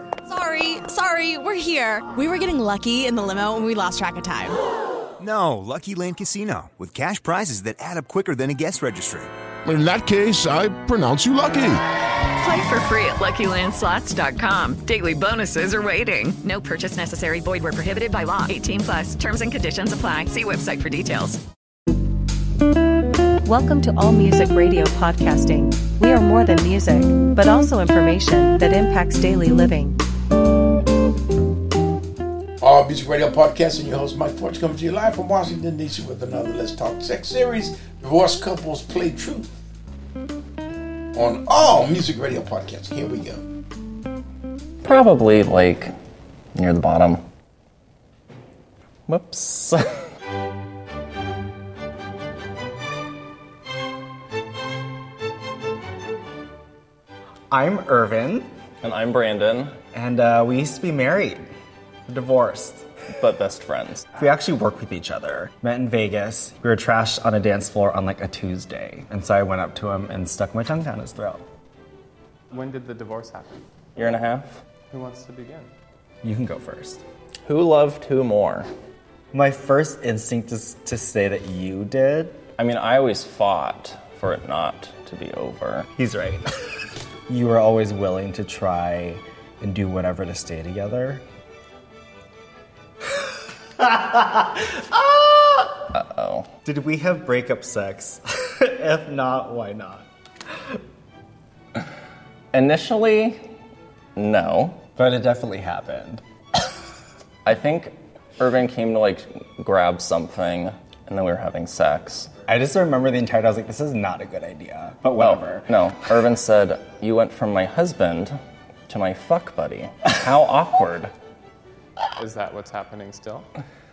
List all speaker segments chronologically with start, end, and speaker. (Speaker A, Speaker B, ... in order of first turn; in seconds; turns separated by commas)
Speaker A: 0.3-4.5, Speaker B: 5.2-9.3, Speaker C: 9.6-11.8, Speaker D: 12.4-21.4, Speaker E: 23.4-30.0, Speaker F: 32.6-39.5, Speaker F: 41.1-43.4, Speaker G: 44.8-45.9, Speaker G: 46.5-47.2, Speaker G: 49.1-49.8, Speaker H: 57.5-58.5, Speaker G: 58.8-59.7, Speaker H: 59.9-61.5, Speaker H: 62.1-62.8, Speaker G: 63.2-64.1, Speaker H: 64.2-71.4, Speaker I: 72.5-73.6, Speaker G: 74.0-74.6, Speaker I: 74.9-75.7, Speaker H: 76.2-77.0, Speaker G: 77.5-78.7, Speaker H: 79.3-82.4, Speaker G: 82.6-85.9, Speaker H: 86.0-86.4, Speaker H: 87.3-91.2, Speaker H: 93.8-95.7, Speaker G: 95.9-96.5, Speaker H: 96.6-100.1, Speaker G: 102.5-103.5, Speaker G: 104.2-104.8, Speaker H: 105.0-106.2, Speaker G: 107.4-112.3, Speaker H: 112.5-115.7, Speaker G: 115.2-118.3, Speaker G: 118.9-121.1, Speaker I: 122.2-123.5